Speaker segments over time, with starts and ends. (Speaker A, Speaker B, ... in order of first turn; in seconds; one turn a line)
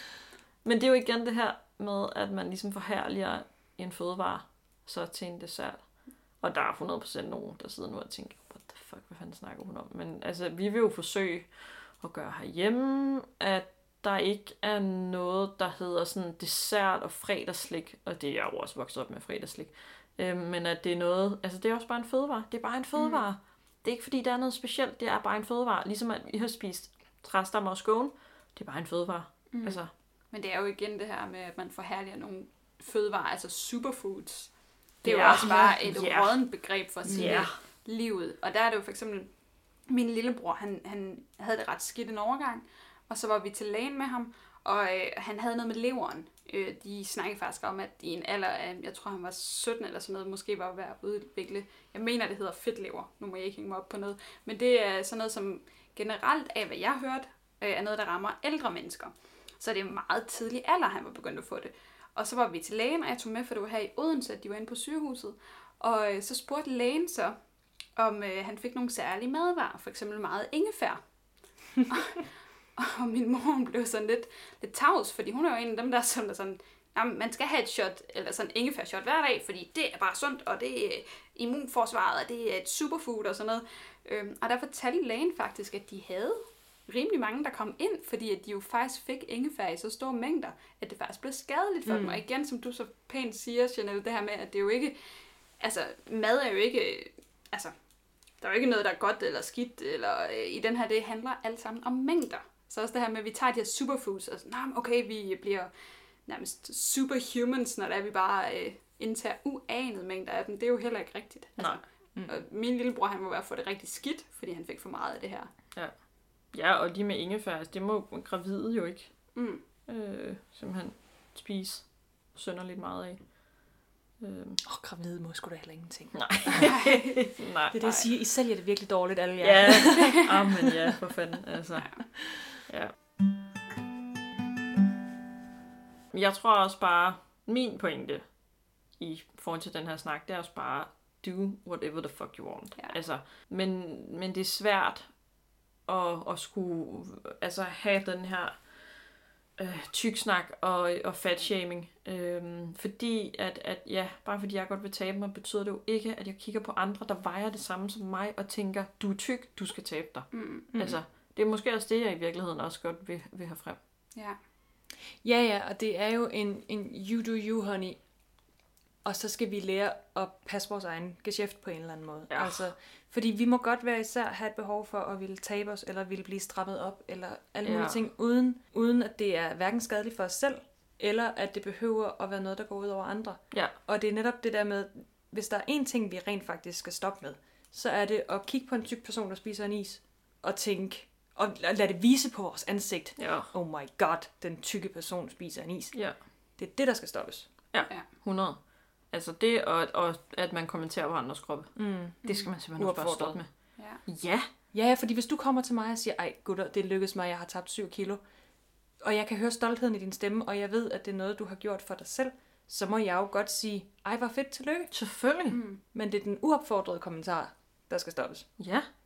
Speaker A: 0.6-29.9
Speaker B: 29.5-34.5
Speaker B: 35.0-39.3
Speaker C: 35.0-36.0
Speaker A: 35.0-36.5
Speaker C: 37.0-37.5
Speaker A: 37.0-37.5
Speaker B: 39.9-67.4
Speaker B: 68.0-71.0
Speaker B: 71.9-95.0
Speaker C: 91.9-92.2
Speaker B: 95.6-97.7
Speaker B: 98.4-105.7
Speaker B: 106.3-115.5
Speaker A: 111.6-111.8
Speaker C: 112.2-112.4
Speaker A: 116.5-119.3
Speaker B: 119.3-119.6
Speaker A: 119.9-123.4
Speaker A: 124.2-124.6
Speaker C: 124.6-126.8
Speaker A: 126.1-128.0
Speaker B: 126.6-127.3
Speaker C: 127.7-130.9
Speaker A: 129.4-132.9
Speaker C: 132.2-132.5
Speaker A: 136.1-138.2
Speaker A: 139.0-145.1
Speaker A: 145.9-148.6
Speaker A: 149.6-163.8
Speaker B: 160.3-160.7
Speaker C: 160.7-161.0
Speaker C: 165.2-168.0
Speaker C: 169.0-196.0
Speaker A: 172.3-172.7
Speaker A: 177.6-178.0
Speaker A: 193.2-193.5
Speaker A: 195.9-196.2
Speaker C: 196.6-197.5
Speaker A: 197.7-204.5
Speaker C: 201.8-202.2
Speaker B: 202.2-202.5
Speaker C: 202.8-203.4
Speaker B: 203.8-204.0
Speaker C: 204.7-208.2
Speaker C: 209.0-214.9
Speaker A: 214.9-215.6
Speaker B: 215.5-215.8
Speaker C: 215.9-218.5
Speaker A: 218.6-218.9